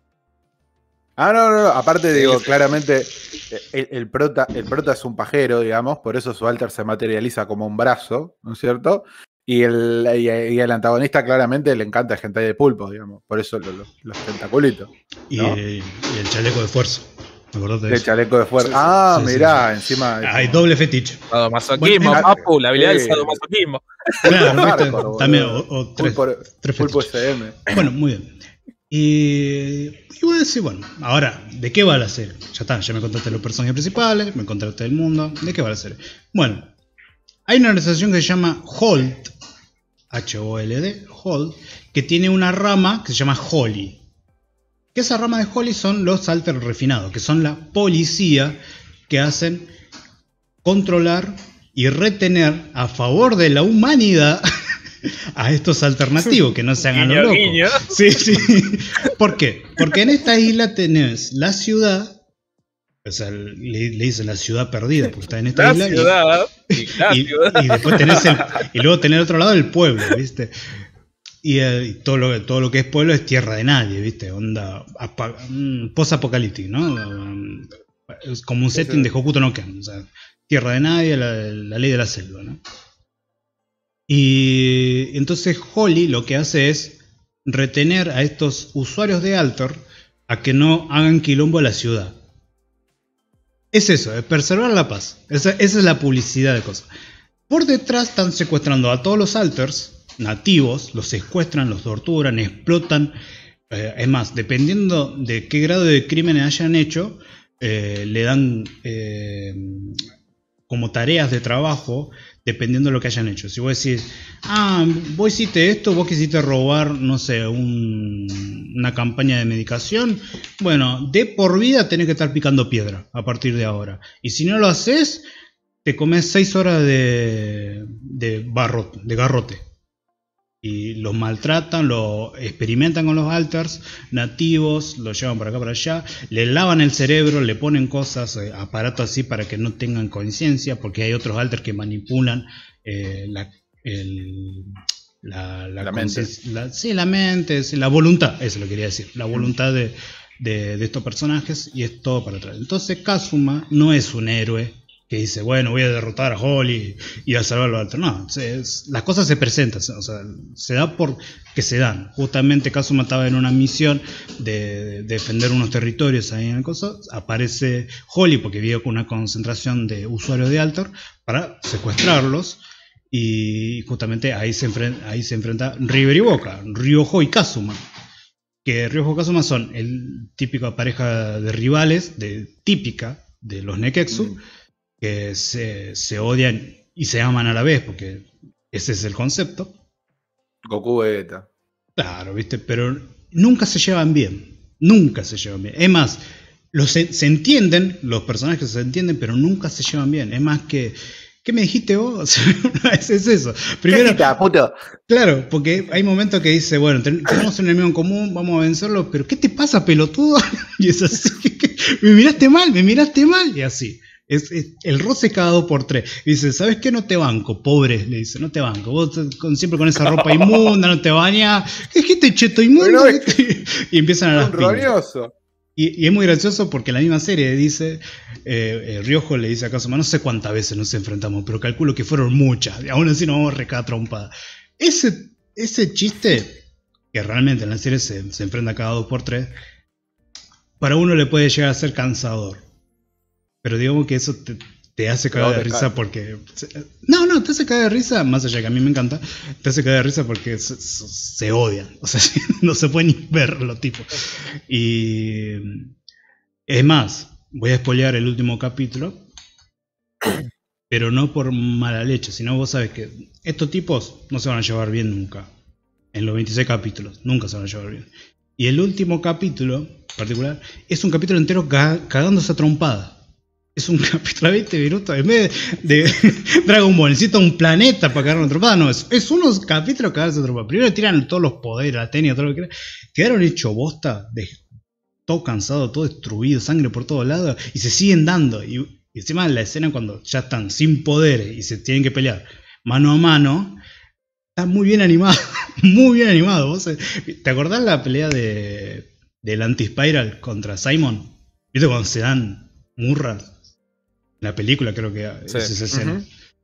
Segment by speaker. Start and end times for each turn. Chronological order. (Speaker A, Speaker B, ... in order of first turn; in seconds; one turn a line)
Speaker A: 1.2-15.6
Speaker B: 15.3-18.1
Speaker A: 17.9-20.7
Speaker B: 19.1-19.7
Speaker B: 20.2-21.2
Speaker C: 21.3-24.6
Speaker B: 21.8-22.3
Speaker A: 22.0-23.4
Speaker B: 24.2-27.1
Speaker A: 24.2-27.8
Speaker B: 27.7-28.4
Speaker B: 28.9-36.7
Speaker B: 37.5-39.3
Speaker B: 40.1-44.0
Speaker B: 45.0-48.6
Speaker B: 49.1-49.7
Speaker B: 50.6-54.5
Speaker B: 55.3-62.2
Speaker C: 56.9-58.0
Speaker B: 63.0-66.1
Speaker C: 65.5-68.4
Speaker B: 66.7-70.5
Speaker B: 71.4-82.6
Speaker A: 78.8-79.1
Speaker B: 84.1-92.2
Speaker B: 93.7-96.9
Speaker B: 97.5-103.2
Speaker B: 103.7-110.0
Speaker B: 110.7-125.2
Speaker B: 125.8-129.7
Speaker B: 130.6-177.8
Speaker A: 145.8-146.3
Speaker B: 178.7-184.4
Speaker B: 185.0-189.8
Speaker A: 190.7-191.5
Speaker B: 192.0-204.3
Speaker A: 203.9-204.8
Speaker B: 205.1-224.9
Speaker A: 222.8-223.4
Speaker A: 224.3-225.3
Speaker B: 225.8-239.5
Speaker B: 240.8-242.6
Speaker B: 243.6-255.9
Speaker A: 245.3-245.9
Speaker B: 256.7-259.2
Speaker B: 260.9-265.5
Speaker B: 266.1-273.2
Speaker B: 273.8-284.6
Speaker B: 285.3-293.8
Speaker B: 294.6-303.6
Speaker B: 304.4-306.3
Speaker A: 305.6-306.2